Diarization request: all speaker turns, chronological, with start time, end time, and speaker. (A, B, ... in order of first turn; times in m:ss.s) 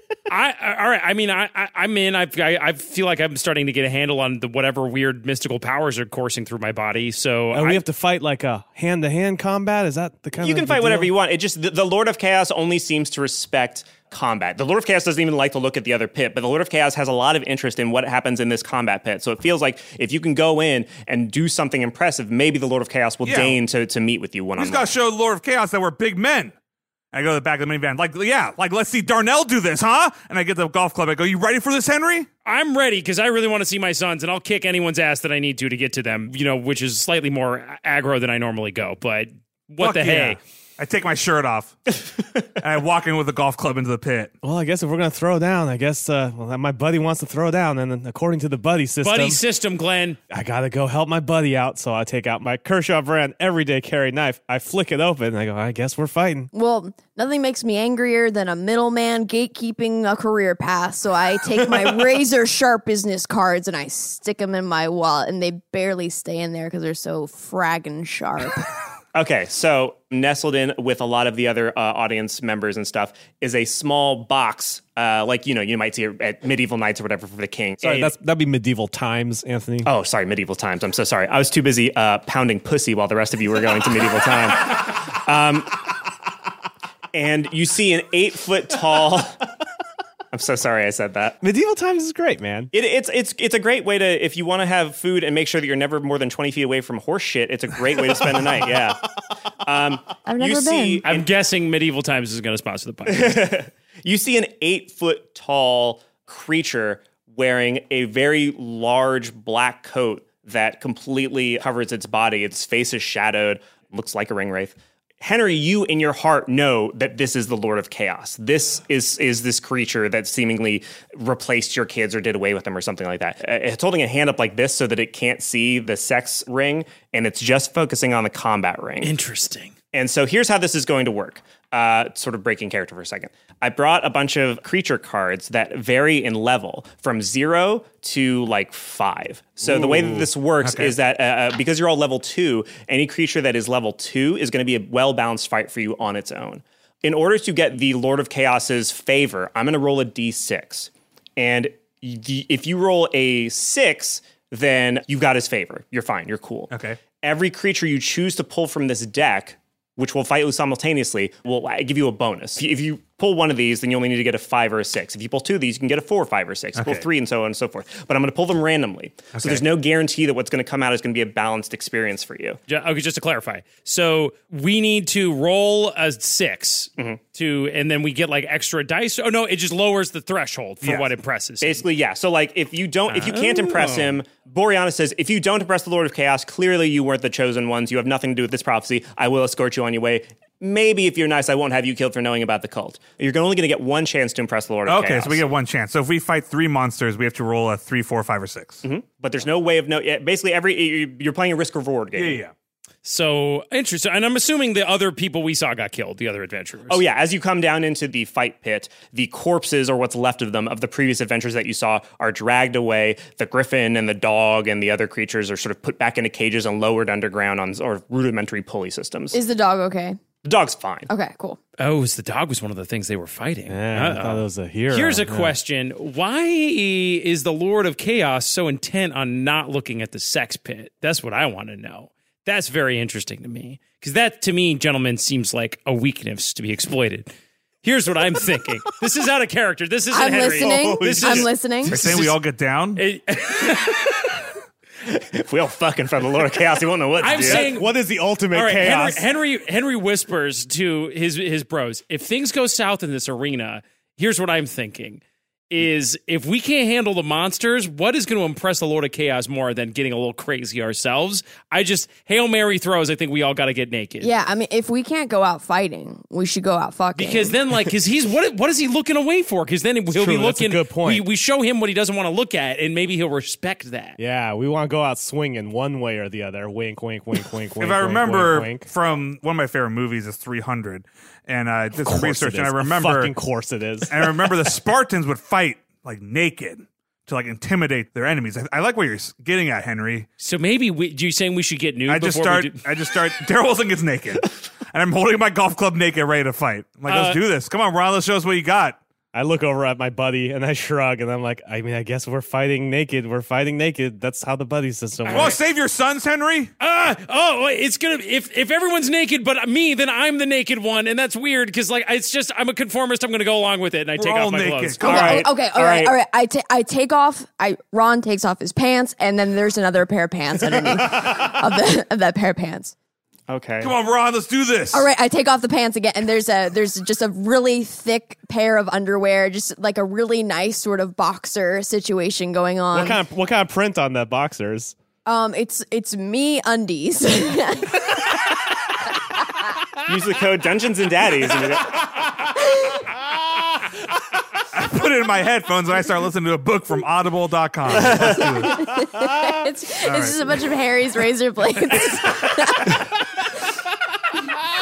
0:00.3-0:07.8 A
0:07.5-0:11.1 B
0:10.4-0:24.9 C
0:23.2-0:23.6 D
0:24.6-0:26.5 D
0:27.1-0:32.3 D
0:32.4-0:40.4 A
0:39.8-0:41.8 D
0:42.6-0:44.3 D
0:44.4-0:49.4 B
0:49.0-0:50.2 A
0:50.3-0:56.5 B
0:56.5-1:08.7 E
1:09.1-1:18.2 C
1:17.8-1:19.9 B
1:19.8-1:25.9 C
1:27.1-1:29.4 C
1:30.3-1:31.4 C
1:31.4-1:32.7 B
1:32.7-1:39.0 C
1:39.6-1:41.3 C
1:40.3-1:41.0 E
1:41.0-1:43.5 A
1:43.1-2:09.1 C
2:09.0-2:09.7 A
2:09.9-2:52.6 C
2:19.8-2:20.3 B
2:20.6-2:21.0 D
2:36.7-2:37.0 D
2:46.8-2:47.1 D
2:49.4-2:49.7 D
2:52.7-3:01.9 A
3:00.8-3:01.1 D
3:01.6-3:15.4 C
3:03.1-3:04.2 A
3:14.9-3:18.8 D
3:18.8-3:22.4 C
3:22.1-3:22.5 D
3:23.0-3:27.0 A
3:26.9-3:39.4 C
3:39.3-3:40.2 E
3:40.4-3:41.1 C
3:41.1-3:41.6 E
3:41.8-3:57.3 A
3:43.7-3:45.6 B
3:57.8-4:02.4 A
4:00.1-4:02.0 E
4:00.6-4:01.5 B
4:01.8-4:03.0 D
4:03.0-4:04.4 A
4:05.1-4:07.8 C
4:07.2-4:08.0 A
4:07.5-4:09.2 B
4:08.5-4:24.3 A
4:24.2-4:27.6 E
4:27.2-4:34.2 A
4:30.1-4:31.3 B
4:34.2-4:38.9 B
4:37.8-4:43.4 D
4:42.0-4:44.6 B
4:44.1-4:50.3 D
4:50.4-4:52.8 A
4:52.1-4:59.0 D
4:57.1-4:57.4 A
4:59.3-5:05.6 B
5:05.2-5:05.6 A
5:05.3-5:06.7 D
5:06.8-5:15.3 A
5:14.2-5:15.5 D
5:15.0-5:23.0 E
5:15.0-5:16.1 C
5:23.5-5:23.9 C
5:23.8-5:25.1 D
5:24.9-5:33.2 E
5:32.9-5:35.0 B
5:35.2-5:38.2 E
5:40.0-5:42.1 C
5:44.7-5:49.2 D
5:47.9-5:48.6 C
5:48.6-5:53.1 E
5:50.0-5:50.3 D